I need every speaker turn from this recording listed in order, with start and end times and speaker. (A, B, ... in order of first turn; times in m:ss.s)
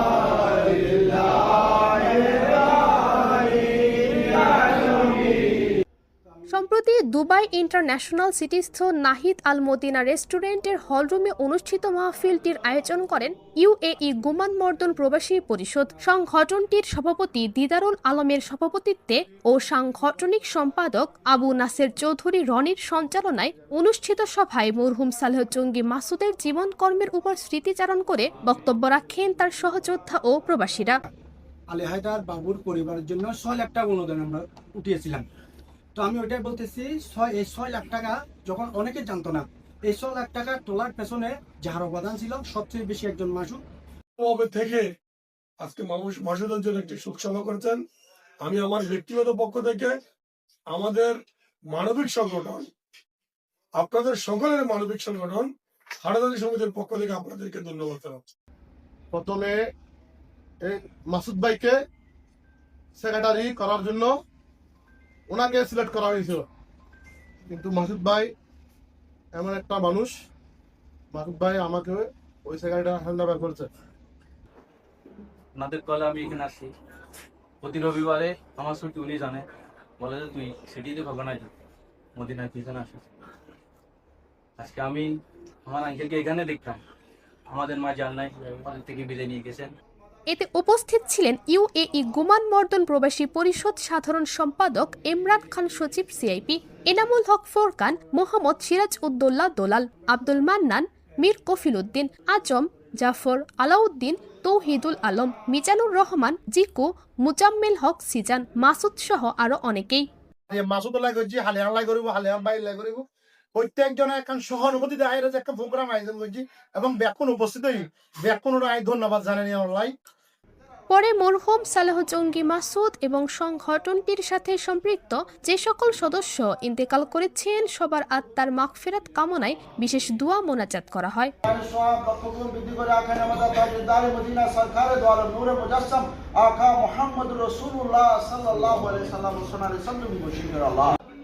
0:00.4-0:01.1 A
0:04.7-0:05.0 A
0:06.5-0:31.0 B
0:31.7-0:35.2 A
0:36.0-0:43.6 A
0:44.2-0:44.9 C
0:45.6-0:47.8 C
0:48.4-0:50.0 C
0:50.7-0:51.2 C
0:51.7-0:52.7 C
0:53.8-0:55.5 C
0:56.0-0:58.2 C
0:59.1-0:59.6 D
1:00.6-1:01.8 D
1:03.0-1:04.2 D
1:05.3-1:06.5 D
1:07.5-1:08.3 D
1:09.4-1:10.1 D
1:11.1-1:13.7 D
1:15.6-1:16.7 E
1:17.6-1:19.4 E
1:20.0-1:21.5 E
1:22.2-1:23.1 E
1:24.6-1:25.1 E
1:25.7-1:26.8 E
1:27.5-1:29.7 E
1:30.3-1:50.1 B
1:50.5-1:59.9 D
2:00.9-2:11.3 B
2:11.4-2:21.0 F